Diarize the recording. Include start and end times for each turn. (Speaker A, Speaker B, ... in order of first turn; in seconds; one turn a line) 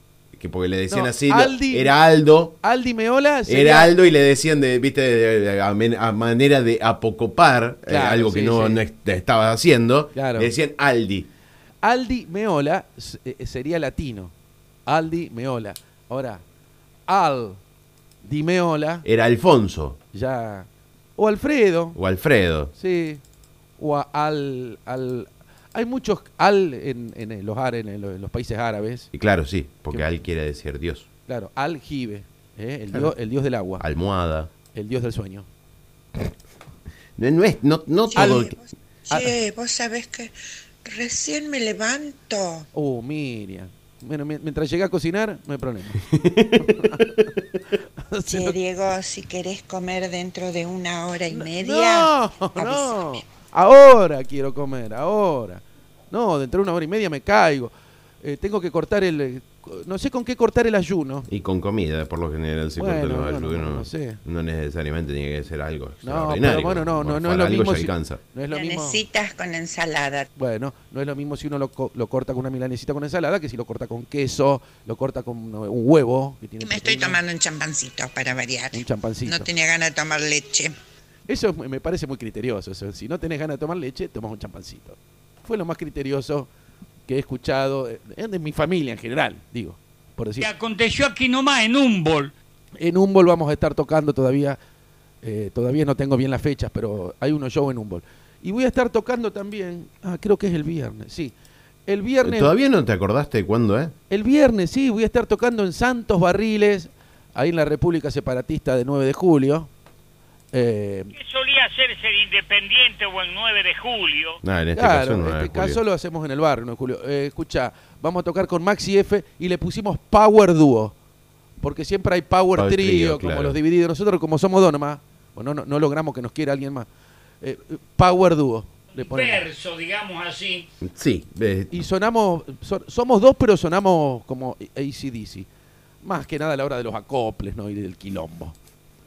Speaker A: 0.3-2.6
Speaker B: 0.9-2.0
Speaker B: 2.6-3.9
Speaker A: 3.5-11.3
Speaker B: 7.9-8.8
Speaker B: 10.2-10.5
Speaker B: 11.8-14.3
Speaker B: 14.9-16.4
Speaker B: 17.1-17.6
Speaker B: 18.2-19.1
Speaker A: 19.0-20.0
Speaker B: 20.1-22.0
Speaker A: 21.9-22.7
Speaker B: 22.8-23.2
Speaker B: 23.8-29.1
Speaker A: 29.1-31.1
Speaker B: 31.3-33.8
Speaker A: 33.8-34.5
Speaker B: 34.7-35.5
Speaker A: 37.2-38.5
Speaker C: 38.1-42.7
Speaker B: 38.2-38.5
Speaker B: 42.7-46.1
Speaker A: 46.0-47.3
Speaker B: 46.6-47.1
Speaker B: 48.0-48.6
Speaker C: 48.3-53.2
Speaker B: 51.3-61.3
Speaker A: 61.3-68.2
Speaker B: 62.8-64.2
Speaker B: 66.0-69.0
Speaker C: 68.5-70.3
Speaker B: 70.4-77.2
Speaker C: 76.6-80.8
Speaker B: 78.7-79.5
Speaker B: 81.3-86.5
Speaker B: 87.1-90.5
Speaker D: 90.4-92.3
Speaker B: 92.8-94.6
Speaker B: 95.2-101.3
Speaker B: 101.9-102.5
Speaker A: 102.2-103.9
Speaker B: 104.1-109.7
Speaker B: 110.5-111.1
Speaker E: 111.2-114.4
Speaker A: 114.4-115.8
Speaker B: 114.8-120.9
Speaker B: 121.6-126.9
Speaker A: 122.5-123.6
Speaker B: 127.4-129.5
Speaker D: 128.9-130.7
Speaker A: 130.8-131.8
Speaker B: 131.7-135.5
Speaker B: 136.0-138.6